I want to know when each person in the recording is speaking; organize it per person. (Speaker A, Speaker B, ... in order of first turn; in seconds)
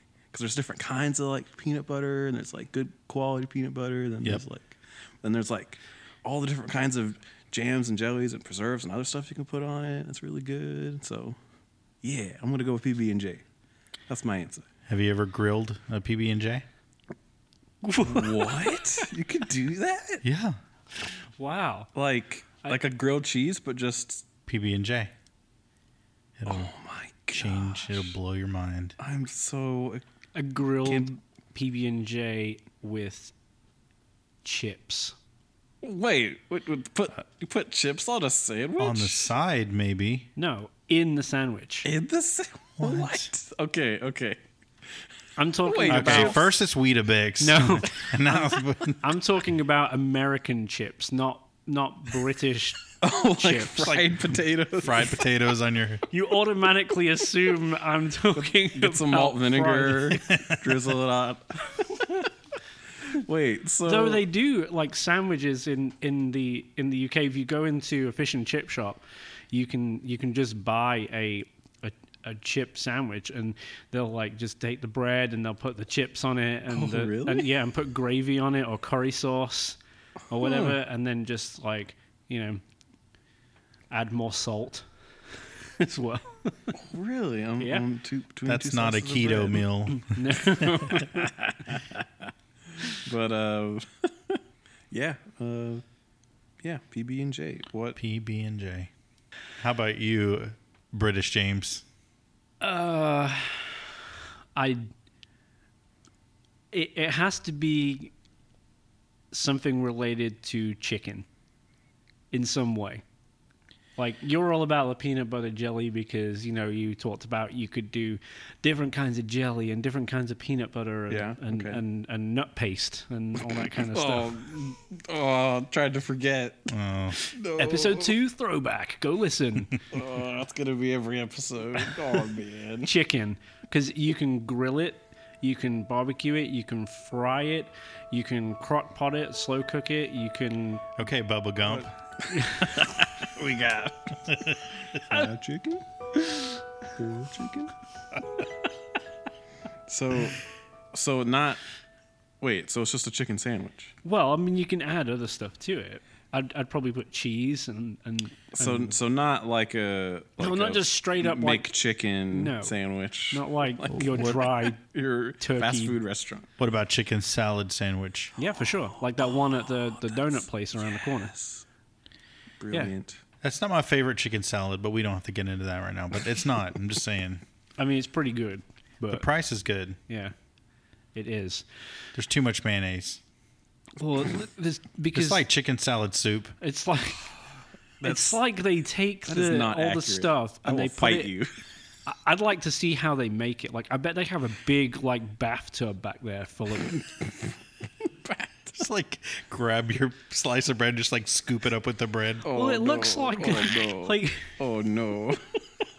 Speaker A: 0.3-11.4, 12.0-13.4, 14.1-14.7, 18.0-20.2, 21.9-24.2, 26.4-28.2, 29.0-30.0, 30.8-31.2, 35.8-39.3, 41.8-44.4, 45.6-46.5, 53.0-55.2, 58.4-62.3, 63.1-64.2, 76.7-77.5, 80.3-80.8, 86.8-89.7, 90.6-92.0, 92.9-94.4, 94.9-95.8, 96.6-98.0, 121.1-121.8, 123.6-128.2, 129.9-132.9, 141.7-144.2, 144.9-145.8, 146.9-147.7, 149.9-150.4, 150.9-151.6, 152.4-153.9, 158.6-166.5, 170.0-171.7, 172.6-173.2, 188.0-188.4, 189.3-191.5, 196.9-197.2, 198.1-198.8, 202.4-205.4
Speaker B: 14.9-16.6, 20.2-20.6, 24.5-25.1, 26.4-26.7, 27.3-29.0, 38.8-40.3, 42.8-43.3, 45.9-49.1, 54.8-56.0, 60.3-60.8, 88.5-90.3, 98.0-98.9, 99.6-101.8, 126.7-127.2, 141.0-141.9, 144.3-145.0, 166.6-168.3, 173.4-177.4, 179.1-180.0, 182.2-183.2, 185.1-186.6, 198.8-202.5
Speaker C: 17.8-19.0, 21.1-21.9, 30.3-33.3, 34.4-35.1, 40.4-41.9, 45.4-46.4, 47.4-48.1, 49.0-54.0, 56.1-60.2, 63.9-79.8, 80.3-82.6, 83.9-84.9, 85.8-86.8, 87.6-87.9, 89.9-91.3, 102.6-104.0, 104.6-104.9, 106.7-108.1, 109.3-111.3, 112.3-113.0, 114.0-124.4, 127.6-129.8, 132.8-140.8, 142.3-142.9, 154.1-158.9, 160.4-161.8, 162.3-162.8, 163.3-164.8, 165.4-166.0, 168.4-171.3, 177.8-179.3, 180.1-180.3, 181.1-181.7, 184.0-185.4, 186.6-187.3, 188.0-191.3, 192.1-197.0, 202.5-204.6